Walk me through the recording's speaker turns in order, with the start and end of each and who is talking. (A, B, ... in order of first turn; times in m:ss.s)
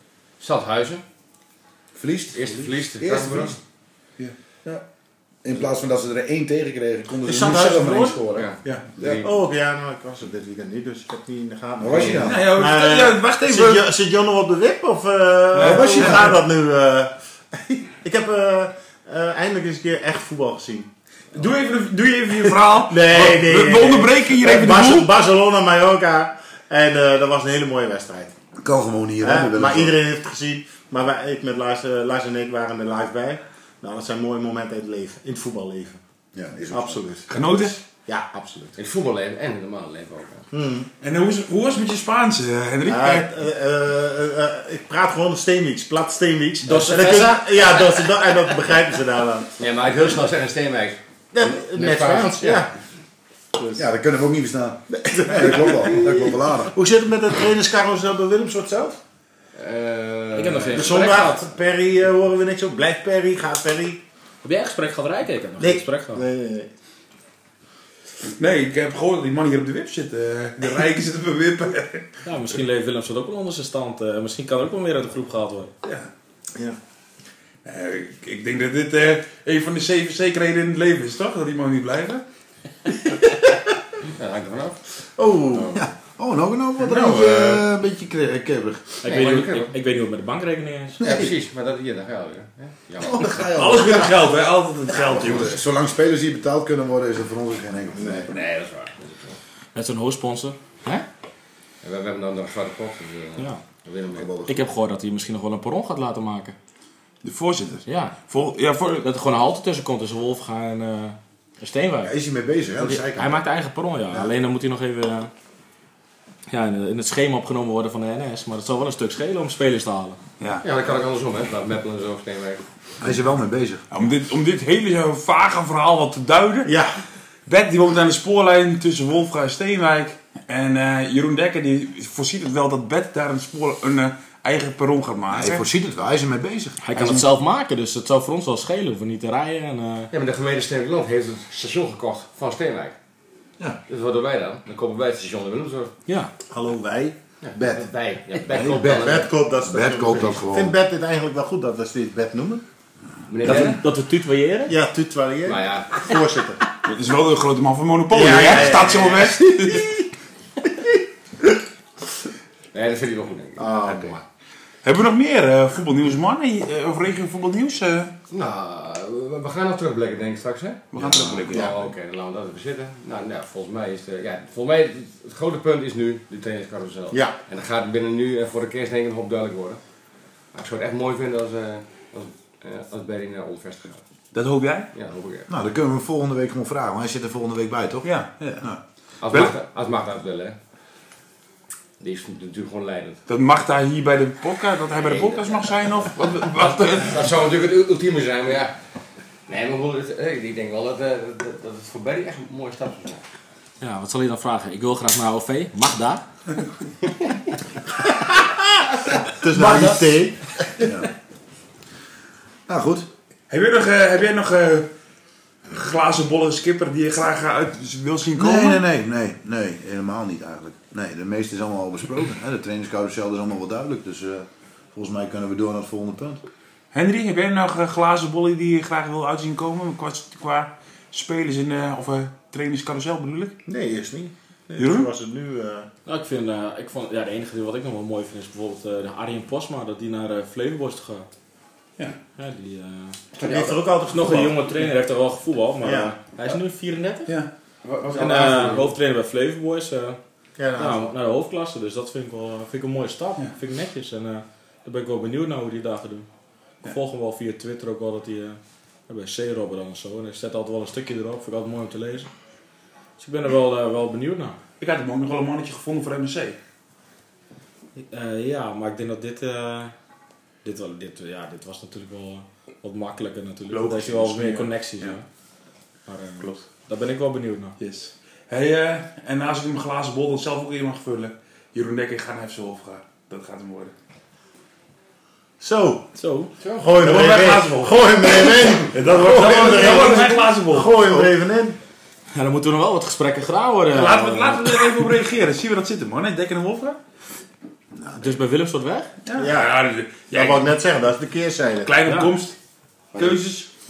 0:00.4-0:01.0 A
0:02.0-0:03.6 B
0:02.3-0:03.6 A
0:05.4-0:09.2 B
0:07.3-0:20.9 C
0:08.3-0:09.3 A
0:11.8-0:12.4 B
0:12.1-0:13.8 D
0:15.6-0:16.4 D
0:15.6-0:16.4 B
0:21.3-0:25.1 D
0:22.7-0:28.4 C
0:28.6-0:30.0 B
0:29.2-0:36.0 C
0:36.3-0:37.0 B
0:36.7-0:38.8 C
0:37.3-0:37.8 D
0:38.8-0:40.5 A
0:40.5-0:40.9 C
0:41.0-0:43.3 D
0:42.8-0:49.5 C
0:46.6-0:47.4 E
0:49.6-0:52.7 A
0:51.3-0:52.7 C
0:53.6-0:53.8 C
0:53.8-0:56.7 B
0:54.9-0:59.0 C
0:59.6-1:01.3 A
1:00.4-1:01.5 E
1:00.8-1:04.0 C
1:04.4-1:06.2 E
1:05.6-1:06.7 C
1:08.2-1:12.2 D
1:12.2-1:15.7 E
1:15.8-1:16.1 D
1:17.6-1:22.2 D
1:24.1-1:24.8 A
1:25.2-1:25.8 C
1:25.7-1:28.9 B
1:26.9-1:27.5 D
1:29.0-1:31.0 E
1:29.0-1:29.7 A
1:31.0-1:31.3 B
1:31.0-1:33.5 A
1:33.0-1:34.1 B
1:33.5-1:35.5 D
1:35.0-1:38.3 B
1:38.3-1:39.4 A
1:39.8-1:41.0 E
1:41.8-1:44.3 A
1:44.1-1:44.7 B
1:44.5-1:46.6 E
1:47.2-1:48.8 D
1:47.9-1:52.1 E
1:52.0-1:53.4 B
1:52.8-1:55.3 E
1:56.5-2:00.2 E
2:00.4-2:00.7 D
2:00.6-2:02.6 A
2:03.0-2:03.8 B
2:03.9-2:06.7 D
2:06.7-2:07.0 C
2:07.5-2:15.6 D
2:15.3-2:16.8 B
2:16.8-2:20.1 E
2:20.1-2:23.0 A
2:23.9-2:25.9 A
2:26.5-2:27.8 C
2:27.4-2:29.3 A
2:28.5-2:30.8 B
2:28.9-2:32.6 C
2:33.3-2:33.8 A
2:33.4-2:34.8 E
2:33.5-2:33.8 D
2:34.7-2:36.7 C
2:35.4-2:36.2 A
2:36.8-2:40.0 D
2:38.1-2:39.9 C
2:42.7-2:44.2 A
2:43.6-2:44.2 C
2:44.8-2:48.1 D
2:48.3-2:59.8 A
2:50.9-2:51.8 D
3:00.5-3:04.0 A
3:04.3-3:04.9 D
3:04.9-3:05.5 A
3:05.5-3:08.8 B
3:08.0-3:08.7 D
3:09.2-3:10.6 A
3:09.3-3:09.5 D
3:12.0-3:13.2 A
3:13.3-3:17.3 D
3:15.0-3:15.8 A
3:16.7-3:18.8 A
3:19.5-3:23.2 A
3:23.8-3:26.2 E
3:29.2-3:30.9 C
3:30.8-3:31.1 B
3:32.7-3:33.1 B
3:33.5-3:34.9 D
3:35.7-3:38.8 D
3:38.4-3:46.4 B
3:46.9-3:53.6 D
3:53.6-3:55.9 C
3:54.8-3:55.1 D
3:56.1-4:01.3 E
4:02.4-4:03.2 E
4:03.4-4:04.6 C
4:03.4-4:03.8 A
4:04.1-4:07.4 E
4:05.8-4:06.1 C
4:07.8-4:08.9 A
4:08.1-4:10.2 E
4:10.6-4:11.1 C
4:10.8-4:16.3 E
4:16.8-4:22.3 E
4:23.2-4:24.6 E
4:24.8-4:26.6 D
4:28.0-4:29.9 E
4:30.6-4:35.2 E
4:33.7-4:35.2 D
4:36.1-4:37.8 E
4:36.4-4:36.7 D
4:37.8-4:43.9 D
4:45.6-4:46.1 C
4:46.2-4:46.5 E
4:46.7-4:51.8 C
4:47.0-4:51.3 D
4:52.3-4:55.0 E
4:53.9-4:57.0 D
4:57.9-4:58.4 B
4:58.2-4:59.1 E
4:59.2-5:00.7 D
4:59.4-5:02.0 C
5:01.8-5:02.6 D
5:02.1-5:02.3 E
5:03.2-5:03.4 A
5:03.2-5:03.7 D